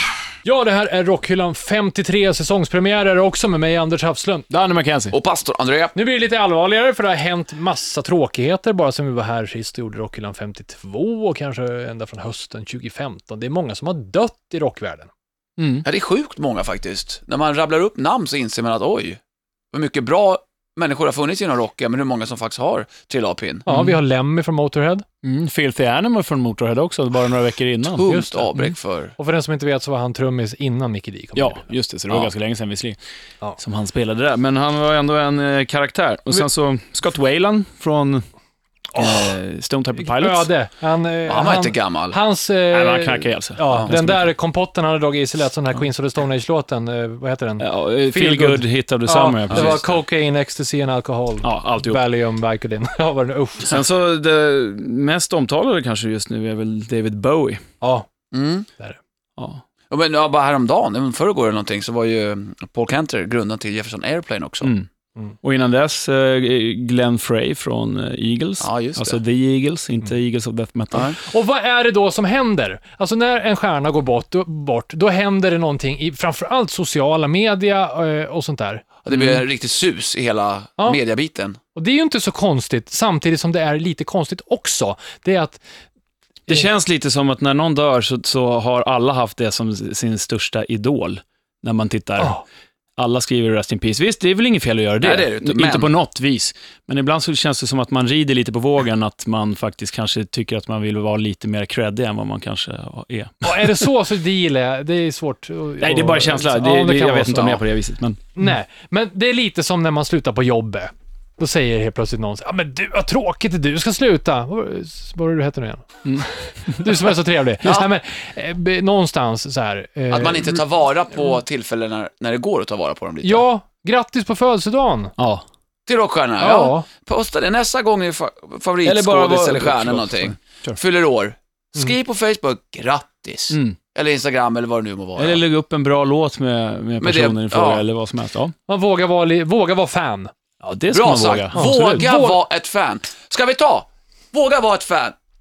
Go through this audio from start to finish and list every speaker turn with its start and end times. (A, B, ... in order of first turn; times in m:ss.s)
0:00.4-0:04.5 A
0:04.5-0:05.1 B
0:05.1-0:05.9 C
0:05.9-0:15.1 A
0:15.6-0:15.8 B
0:15.8-0:19.2 C
0:19.7-0:23.6 C
0:23.6-0:25.0 A
0:23.7-0:24.0 B
0:25.2-0:28.0 B
0:27.9-0:29.1 C
0:28.0-0:28.7 A
0:29.2-0:31.6 A
0:31.4-0:33.0 B
0:33.6-0:38.2 B
0:38.9-0:40.5 B
0:39.0-0:39.3 A
0:40.0-0:53.8 A
0:41.3-0:42.2 C
0:42.7-0:44.3 B
0:47.6-0:49.9 B
0:49.5-0:49.8 C
0:51.4-0:52.0 B
0:53.6-0:57.6 B
0:57.8-0:58.0 A
0:58.3-0:58.7 C
0:59.4-0:59.6 B
0:59.9-1:04.7 C
1:04.6-1:04.9 B
1:05.4-1:11.1 B
1:08.6-1:09.2 C
1:11.2-1:18.8 A
1:19.0-1:21.6 C
1:19.1-1:19.4 B
1:21.7-1:25.6 A
1:26.5-1:32.4 B
1:33.0-1:43.8 B
1:35.0-1:35.9 C
1:43.4-1:47.6 A
1:45.8-1:48.3 B
1:48.3-2:00.6 A
2:00.1-2:03.4 C
2:03.2-2:05.1 A
2:05.2-2:05.4 B
2:05.9-2:15.4 C
2:06.4-2:06.9 A
2:08.8-2:10.8 B
2:13.5-2:13.8 B
2:15.2-2:18.5 B
2:17.0-2:17.8 C
2:18.7-2:20.3 A
2:20.6-2:22.0 B
2:20.9-2:25.2 C
2:21.5-2:22.4 A